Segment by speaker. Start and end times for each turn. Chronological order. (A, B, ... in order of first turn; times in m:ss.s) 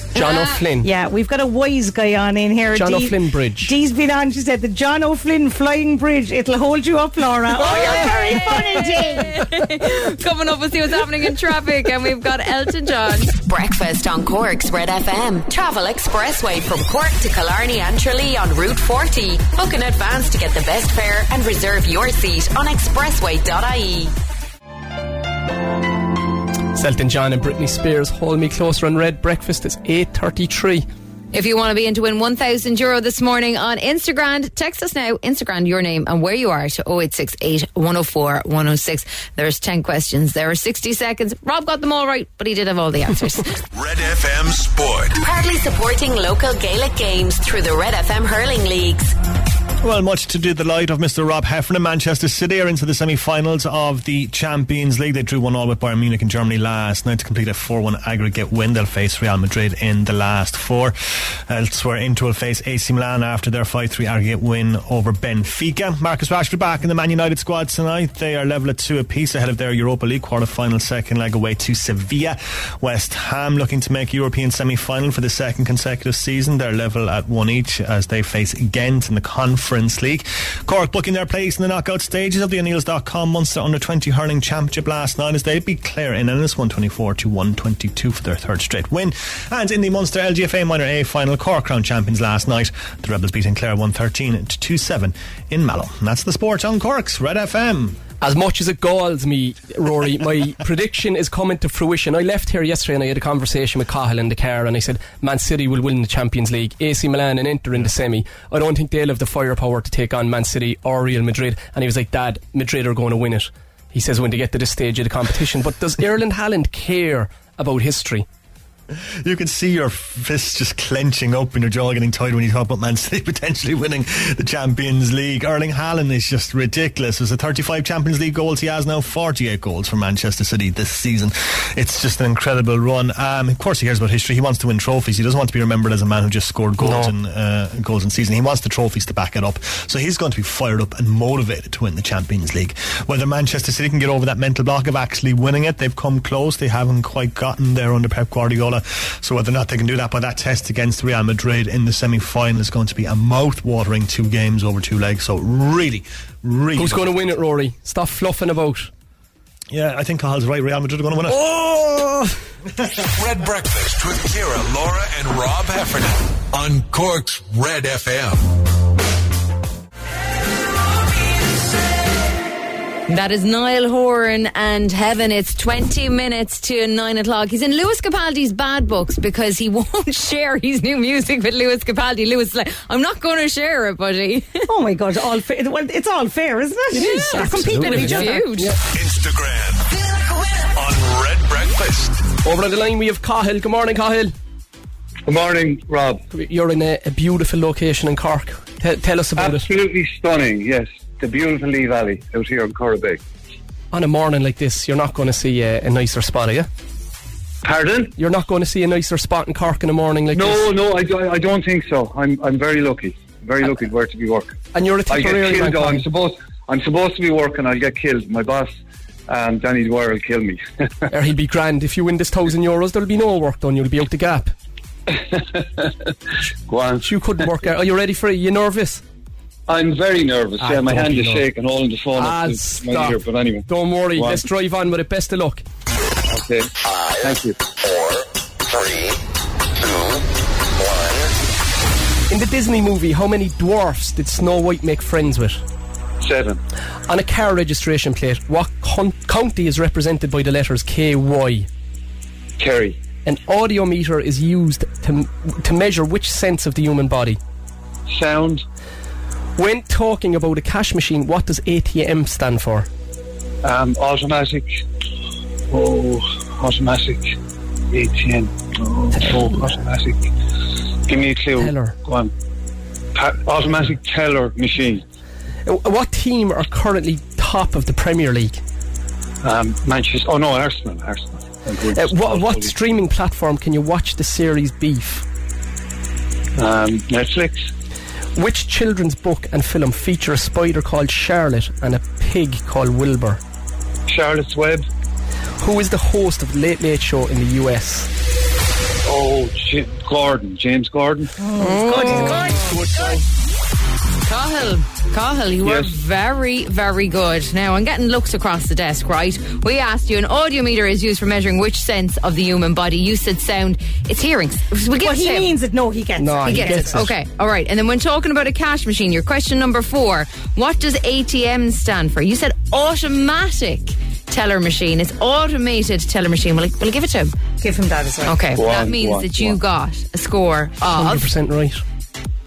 0:00.2-0:00.9 A
0:00.2-0:00.6 B
0:00.8-0:09.4 C
0:02.7-0:03.7 A
0:07.7-0:08.5 A
0:07.7-0:13.3 B
0:13.4-0:24.1 D
0:26.7-0:30.9 A
0:31.3-0:43.5 B
0:43.7-0:45.2 E
0:45.2-0:49.1 D
0:49.8-1:01.0 F
1:01.5-1:38.0 F
1:38.2-1:58.3 A
1:59.2-2:37.2 F
2:16.8-2:17.1 A
2:36.8-2:38.9 A
2:39.7-2:41.5 F
2:41.3-2:42.3 A
2:43.2-2:48.4 E
2:53.1-3:04.7 B
3:04.7-3:08.4 C
3:06.9-3:08.8 A
3:07.0-3:08.7 B
3:08.9-3:10.0 E
3:10.7-3:12.2 E
3:12.4-3:14.3 A
3:15.3-3:16.2 G
3:16.3-3:19.7 A
3:19.4-3:23.2 G
3:23.9-3:26.7 A
3:27.6-3:28.1 G
3:28.2-3:30.7 A
3:30.3-3:38.7 G
3:34.7-3:36.1 A
3:39.3-3:41.1 G
3:41.1-3:44.5 A
3:45.1-3:46.0 G
3:46.7-3:47.5 G
3:47.0-3:49.0 A
3:49.7-3:54.5 G
3:50.6-3:51.5 A
3:52.2-3:55.6 A
3:56.3-3:56.7 G
3:57.2-3:57.6 G
4:02.3-4:05.6 A
4:06.2-4:06.6 G
4:07.1-4:11.7 A
4:12.6-4:13.0 G
4:13.2-4:17.4 A
4:18.1-4:18.6 G
4:19.6-4:22.9 A
4:23.6-4:24.7 G
4:25.7-4:27.4 G
4:27.9-4:30.3 G
4:29.2-4:29.7 A
4:31.1-4:32.3 G
4:31.6-4:32.0 A
4:33.2-4:35.0 G
4:35.7-4:38.6 A
4:39.4-4:42.8 G
4:41.9-4:45.3 A
4:46.6-4:47.7 G
4:48.4-4:53.4 A
4:54.1-4:54.8 G
4:55.6-4:58.1 A
4:59.0-5:01.3 G
5:01.4-5:02.7 C
5:01.6-5:02.6 B
5:01.8-5:02.6 A
5:04.3-5:15.5 B
5:05.6-5:06.0 G
5:15.0-5:17.0 C
5:16.2-5:17.1 A
5:16.5-5:27.4 B
5:27.6-5:28.4 C
5:28.3-5:31.3 B
5:28.6-5:29.6 G
5:30.9-5:31.8 A